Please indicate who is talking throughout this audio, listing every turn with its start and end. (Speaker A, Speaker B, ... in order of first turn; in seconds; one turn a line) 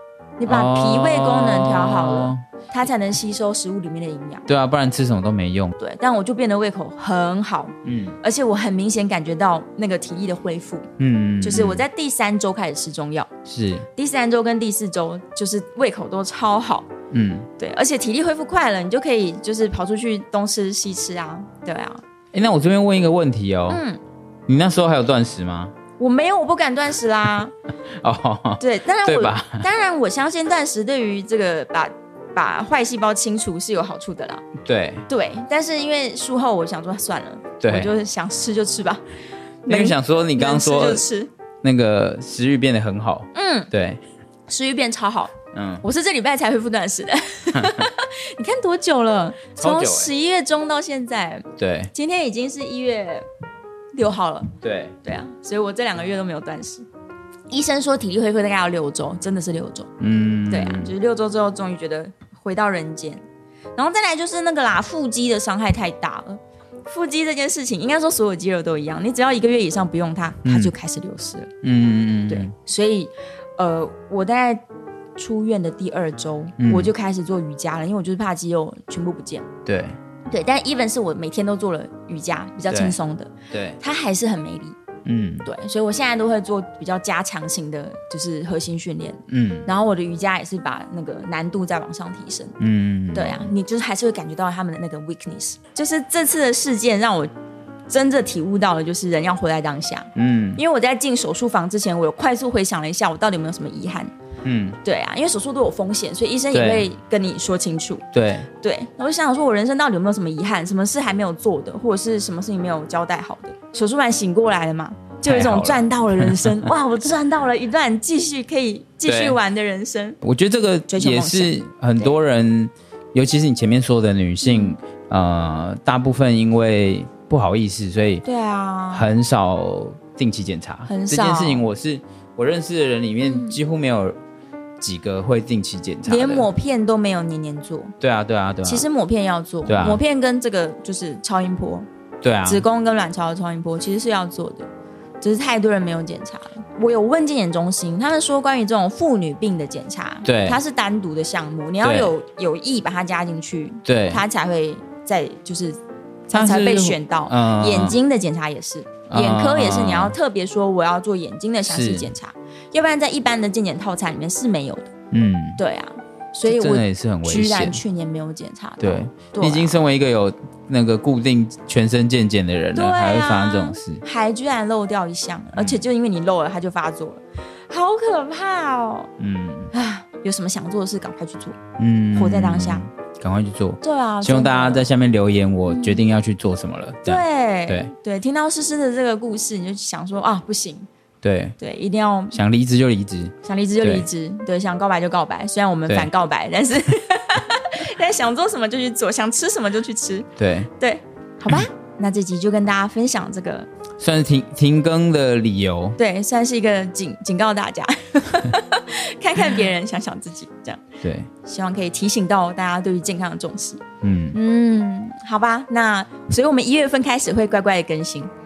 Speaker A: 0.4-4.5
Speaker B: 0.5-2.4
Speaker B: 4.5-5.7
Speaker A: 5.8-10.9
Speaker B: 7.8-8.2
Speaker B: 11.0-11.9
Speaker A: 11.4-13.3
Speaker B: 13.5-13.9
Speaker A: 14.0-16.9
Speaker B: 17.1-17.5
Speaker A: 17.6-22.0
Speaker B: 22.3-23.8
Speaker A: 23.7-24.0
Speaker B: 24.5-25.7
Speaker A: 26.0-27.5
Speaker B: 28.0-29.7
Speaker A: 28.6-34.5
Speaker B: 34.6-35.1
Speaker A: 35.1-39.0
Speaker B: 37.6-37.9
Speaker A: 39.6-41.3
Speaker B: 39.7-41.0
Speaker B: 41.6-44.0
Speaker A: 43.3-43.7
Speaker A: 44.5-53.3
Speaker B: 45.5-45.8
Speaker B: 47.5-47.9
Speaker B: 49.6-50.1
Speaker B: 51.6-51.9
Speaker A: 54.0-54.5
Speaker B: 54.6-55.0
Speaker A: 55.0-56.9
Speaker A: 57.5-59.9
Speaker B: 60.0-60.9
Speaker A: 60.5-63.2
Speaker A: 63.8-71.5
Speaker B: 70.5-70.7
Speaker B: 71.6-72.5
Speaker A: 72.3-74.6
Speaker A: 75.2-79.5
Speaker B: 76.6-76.9
Speaker B: 79.7-80.0
Speaker A: 80.3-84.8
Speaker B: 82.7-83.0
Speaker B: 83.5-83.8
Speaker B: 85.0-85.5
Speaker A: 85.5-92.5
Speaker B: 89.3-89.7
Speaker B: 92.6-93.5
Speaker A: 93.1-97.3
Speaker A: 97.9-104.1
Speaker B: 100.2-100.6
Speaker B: 104.4-104.8
Speaker A: 104.8-108.0
Speaker B: 106.5-106.9
Speaker B: 108.1-108.5
Speaker A: 108.6-120.2
Speaker B: 115.2-116.7
Speaker B: 119.0-119.4
Speaker B: 120.2-128.2
Speaker A: 120.9-122.2
Speaker A: 124.4-124.8
Speaker A: 128.2-129.1
Speaker B: 128.9-134.2
Speaker A: 130.9-131.7
Speaker A: 133.2-133.6
Speaker B: 134.8-136.5
Speaker A: 136.1-137.9
Speaker B: 138.0-138.8
Speaker A: 138.6-141.9
Speaker B: 139.7-140.0
Speaker B: 142.2-142.6
Speaker A: 142.4-144.7
Speaker A: 145.2-164.9
Speaker B: 150.2-150.6
Speaker B: 151.8-152.1
Speaker B: 153.9-154.2
Speaker B: 156.3-158.0
Speaker B: 159.1-160.2
Speaker B: 161.7-162.1
Speaker B: 165.1-165.6
Speaker A: 165.6-169.8
Speaker B: 166.4-167.8
Speaker B: 168.8-174.0
Speaker A: 172.7-179.1
Speaker B: 175.6-175.8
Speaker B: 179.2-179.7
Speaker A: 179.7-181.6
Speaker B: 181.8-187.9
Speaker A: 182.1-182.9
Speaker A: 183.8-184.9
Speaker A: 185.7-186.0
Speaker A: 187.1-190.9
Speaker B: 191.2-191.6
Speaker A: 191.6-192.4
Speaker B: 192.3-194.1
Speaker A: 193.4-203.7
Speaker B: 200.4-200.7
Speaker B: 204.0-206.0
Speaker A: 206.0-210.8
Speaker B: 211.0-211.3
Speaker A: 211.4-213.8
Speaker B: 214.0-214.4
Speaker A: 214.3-218.3